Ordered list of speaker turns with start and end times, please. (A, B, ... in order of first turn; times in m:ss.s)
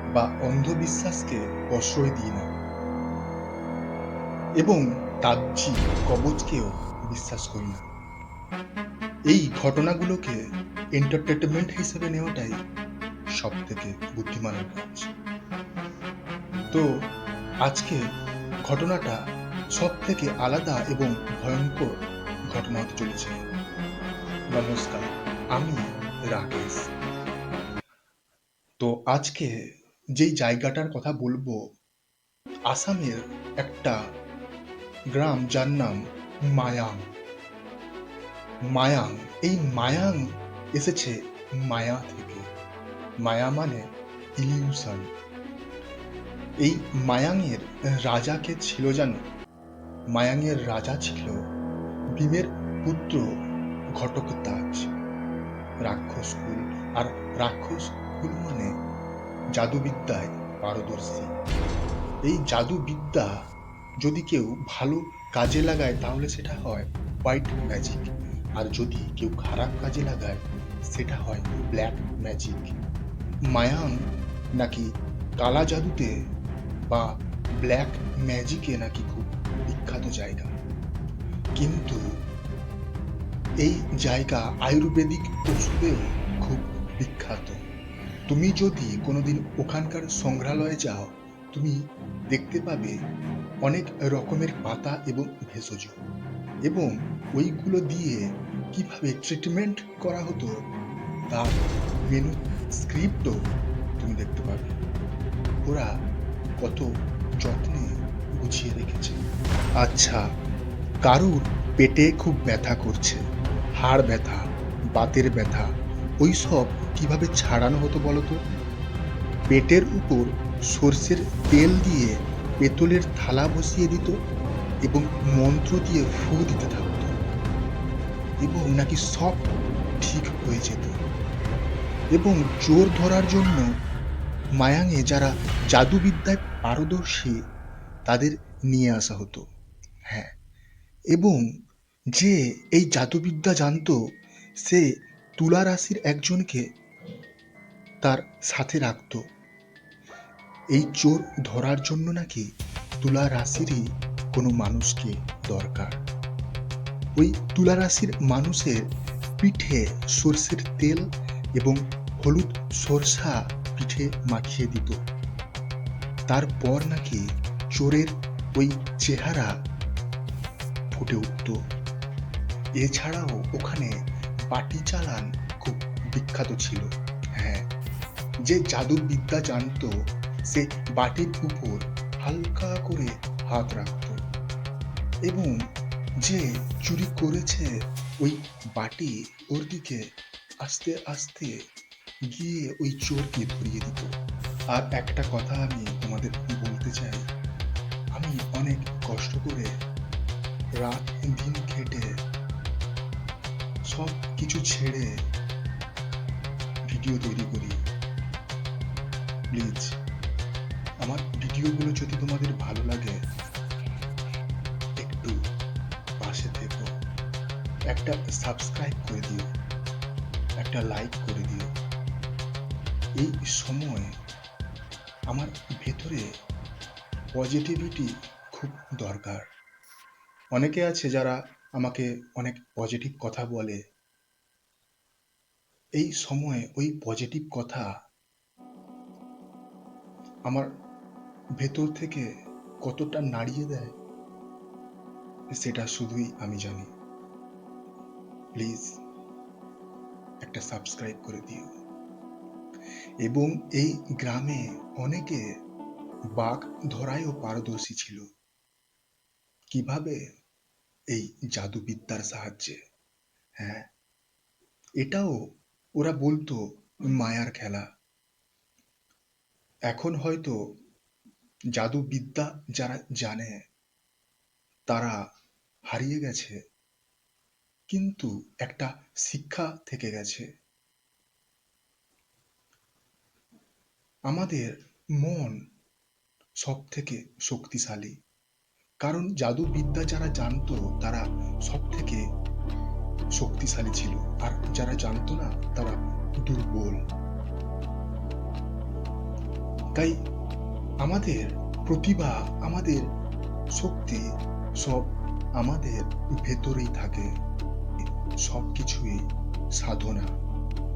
0:00.2-0:02.5 A
0:04.6-0:07.8 A
0:09.3-0:10.4 A
0:11.0-0:12.6 A
0:13.4-0:15.1 A
0:17.7-0:18.0 A
0:18.7-0:19.2 A
0:19.8-0:21.9 A
0:22.5-0:23.4 A
0:24.5-0:26.9 A
0:28.8-0:29.6 A
0:30.2-0:31.6 A
0:32.7-0:34.0 A
0:35.1-0:37.1 A
0:38.7-0:42.5 A
0:43.2-0:45.1 A
0:46.6-0:49.2 A
0:50.1-0:51.4 A
0:52.2-0:53.3 A
0:54.0-0:54.9 A
0:55.8-0:58.7 A
0:59.6-1:01.3 A
1:02.2-1:03.3 A
1:04.0-1:12.8 A
1:13.5-1:14.0 A
1:14.6-1:16.1 A
1:16.9-1:20.5 A
1:21.6-1:22.0 A
1:23.6-1:27.6 A
1:28.3-1:31.8 A
1:32.3-1:33.0 A
1:33.7-1:36.0 A
1:36.7-1:40.5 A
1:41.3-1:43.4 A
1:44.0-1:44.8 A
1:46.6-1:46.9 A
1:47.4-1:49.2 A
1:49.8-1:50.2 A
1:51.0-1:53.2 A
1:53.8-1:58.4 A
1:59.5-2:04.1 A
2:04.9-2:07.1 A
2:08.4-2:09.5 A
2:10.0-2:11.0 A
2:12.2-2:13.7 A
2:14.6-2:17.4 A
2:18.1-2:19.5 A
2:21.1-2:21.5 A
2:22.2-2:26.7 A
2:28.0-2:29.2 A
2:30.7-2:36.0 A
2:37.2-2:38.9 A
2:39.4-2:45.0 A
2:46.3-2:49.5 A
2:50.9-2:51.6 A
2:52.8-2:57.7 A
2:58.5-3:04.2 A
3:05.3-3:05.6 A
3:06.2-3:10.0 A
3:10.6-3:11.5 A
3:12.3-3:14.1 A
3:14.7-3:17.2 A
3:18.2-3:19.7 A
3:20.8-3:22.1 A
3:23.9-3:25.1 A
3:26.9-3:27.8 A
3:29.5-3:30.0 A
3:31.0-3:33.2 A
3:35.0-3:35.4 A
3:36.2-3:36.9 A
3:37.9-3:39.5 A
3:40.6-3:41.7 A
3:43.2-3:44.1 A
3:45.3-3:46.2 A
3:47.4-3:49.5 A
3:50.6-3:53.8 A
3:56.0-3:57.9 A
4:01.6-4:02.3 A
4:02.8-4:04.0 A
4:05.5-4:06.9 A
4:08.6-4:09.0 A
4:10.4-4:11.7 A
4:13.2-4:15.4 A
4:16.4-4:18.3 A
4:19.7-4:20.2 A
4:21.1-4:22.8 A
4:23.6-4:23.9 A
4:25.0-4:25.4 A
4:26.0-4:27.8 A
4:29.9-4:30.6 A
4:31.8-4:33.6 A
4:34.9-4:35.2 A
4:35.9-4:36.6 A
4:37.9-4:40.5 A
4:44.3-4:45.6 A
4:46.6-4:48.2 A
4:49.0-4:52.2 A
4:53.4-4:57.0 A
5:00.0-5:00.2 A
5:01.0-5:03.1 A
5:03.7-5:04.3 A
5:04.8-5:07.3 A
5:08.4-5:10.3 A